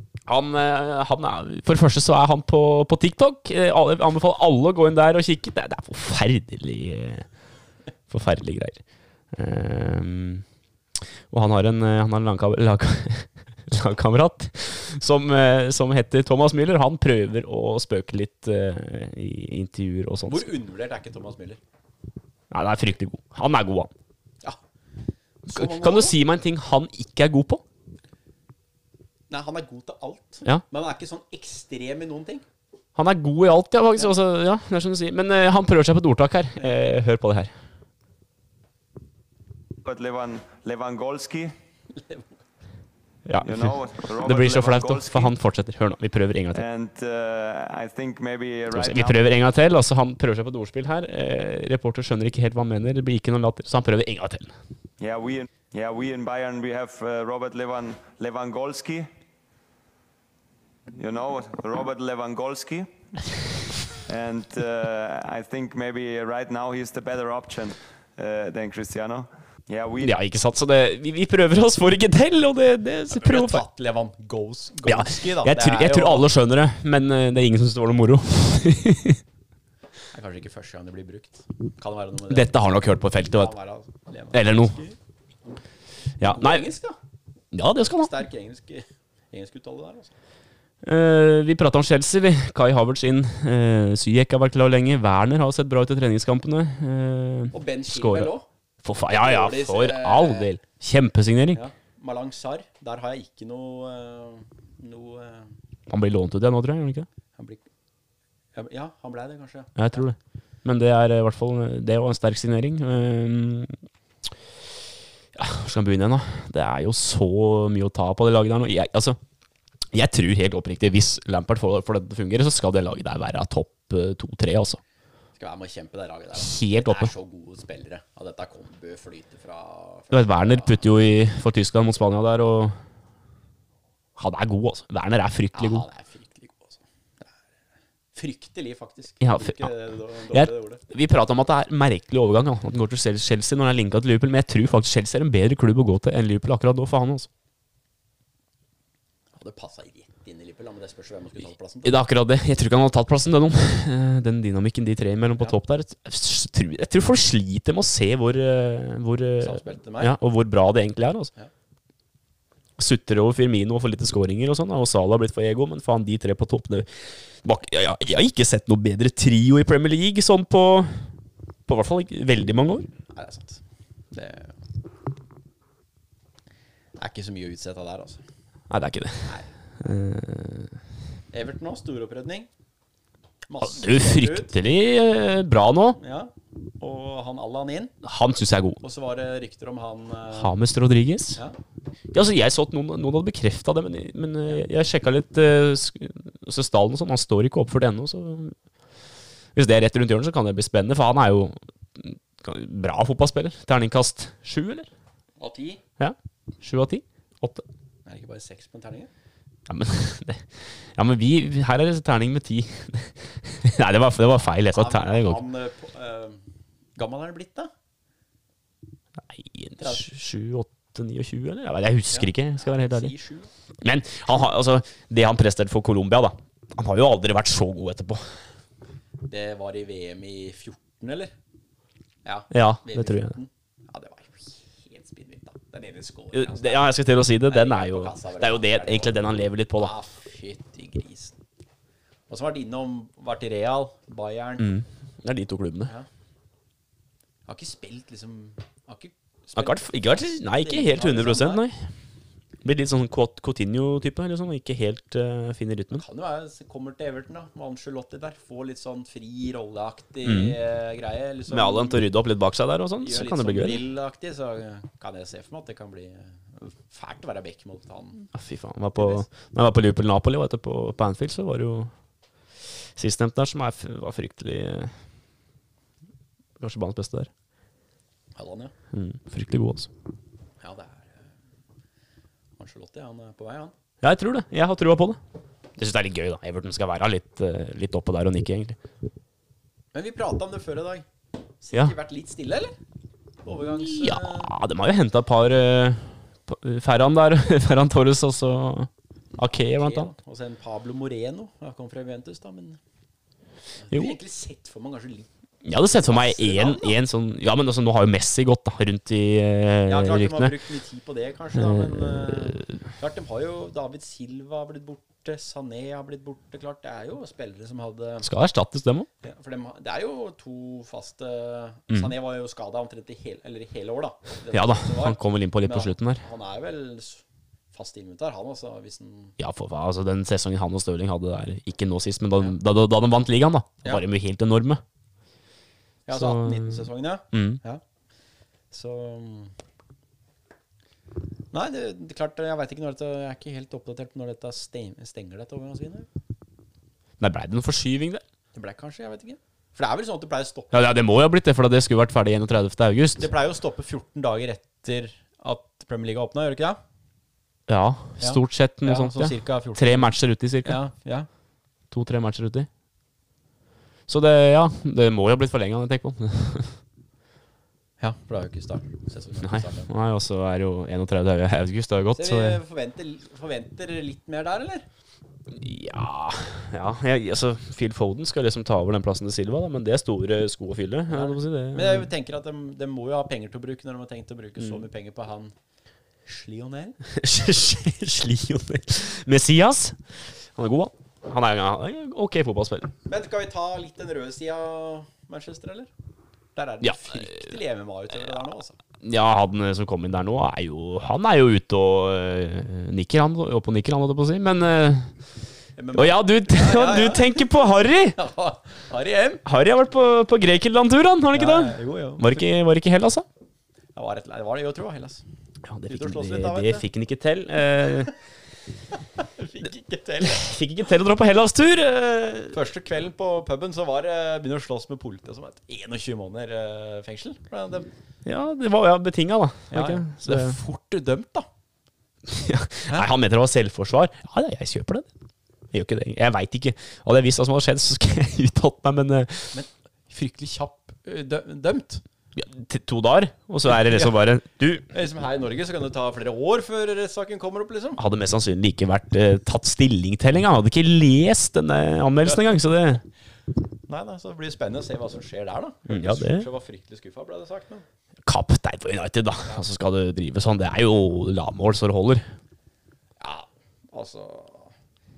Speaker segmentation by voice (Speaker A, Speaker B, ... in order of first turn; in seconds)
Speaker A: 0.3-7.3, 8.1-8.8, 9.3-10.4, 11.3-20.5, 22.5-23.9, 25.5-27.6, 33.0-37.5, 43.3-46.6, 48.7-54.5, 70.0-73.6, 74.9-79.2, 82.3-83.5, 84.3-84.8, 86.2-86.7, 87.5-88.1, 90.8-101.6, 105.9-107.1, 109.8-113.8, 115.3-119.2, 119.9-124.8, 126.4-127.1, 130.1-132.8, 134.2-135.9, 139.2-139.7, 140.3-147.3, 151.8-161.3, 162.8-166.9, 167.4-171.1, 171.7-172.9, 178.7-180.7, 183.6-186.0, 188.0-188.8, 190.3-191.4, 192.1-198.6, 199.6-204.9, 206.0-207.7, 209.7-215.4, 219.2-223.1, 223.8-228.2, 232.5-233.3, 236.3-239.9, 244.6-245.9, 249.6-251.8, 252.6-256.0, 260.2-260.6, 261.5-263.8, 268.3-271.9, 273.0-274.9, 276.6-277.3, 278.9-279.9, 284.0-285.2, 285.8-288.8, 293.8-300.1, 303.9-304.2, 305.6-310.6, 311.6-312.6, 318.2-319.1, 324.5-326.2, 329.4-334.8, 336.1-337.6, 347.2-348.2, 350.7-353.3, 357.7-360.8, 361.9-362.7, 364.1-366.8, 369.4-372.6, 375.5-382.1, 387.1-390.0, 390.6-392.9, 396.8-397.4, 399.0-405.1, 405.9-408.2, 409.4-413.3, 415.6-418.1, 420.2-422.6, 428.2-430.6, 432.3-435.1, 435.7-439.5, 442.4-444.9, 448.0-453.0, 455.9-456.5, 458.3-462.3
Speaker B: 20.3-21.6, 25.5-26.2, 29.3-32.4, 36.6-36.9, 42.0-42.3, 73.1-76.3, 80.1-82.5, 83.3-85.0, 86.2-87.0, 88.0-90.1, 97.5-98.5, 99.1-100.5, 101.5-105.5, 107.4-107.6, 108.5-110.1, 125.4-130.9, 135.5-136.8, 138.1-140.8, 149.4-152.0, 159.4-160.2, 173.1-173.6, 174.1-174.6, 177.0-178.2, 179.2-179.5, 181.3-182.5, 183.5-184.6, 186.0-187.9, 188.8-190.5, 205.4-205.8, 208.1-209.1, 214.7-216.4, 217.0-217.7, 219.8-220.1, 222.1-223.5, 229.2-231.3, 232.2-236.9, 237.5-239.2, 239.8-241.3, 242.3-244.8, 247.5-251.6, 255.9-262.1, 263.0-268.3, 269.0-269.3, 278.4-278.7, 280.6-281.3, 282.6-283.7, 289.9-291.1, 291.6-292.8, 293.4-294.5, 299.4-302.8, 303.8-305.3, 305.8-307.0, 309.9-318.3, 319.2-329.4, 336.1-337.8, 338.7-339.5, 341.5-346.1, 348.5-350.7, 353.2-356.8, 358.2-361.3, 368.0-369.9, 372.1-374.9, 381.1-385.5, 386.3-387.0, 393.1-395.9, 396.6-398.8, 405.8-407.5, 408.1-409.4, 411.3-412.4, 413.9-415.2, 415.9-416.8, 419.1-420.5, 422.5-427.9, 429.7-431.5, 439.5-442.0, 443.8-444.1, 444.9-448.0, 453.9-457.9, 463.2-464.7
Speaker C: 39.9-41.5, 43.4-45.3, 46.5-49.2, 55.0-59.1, 60.9-62.9, 64.0-70.1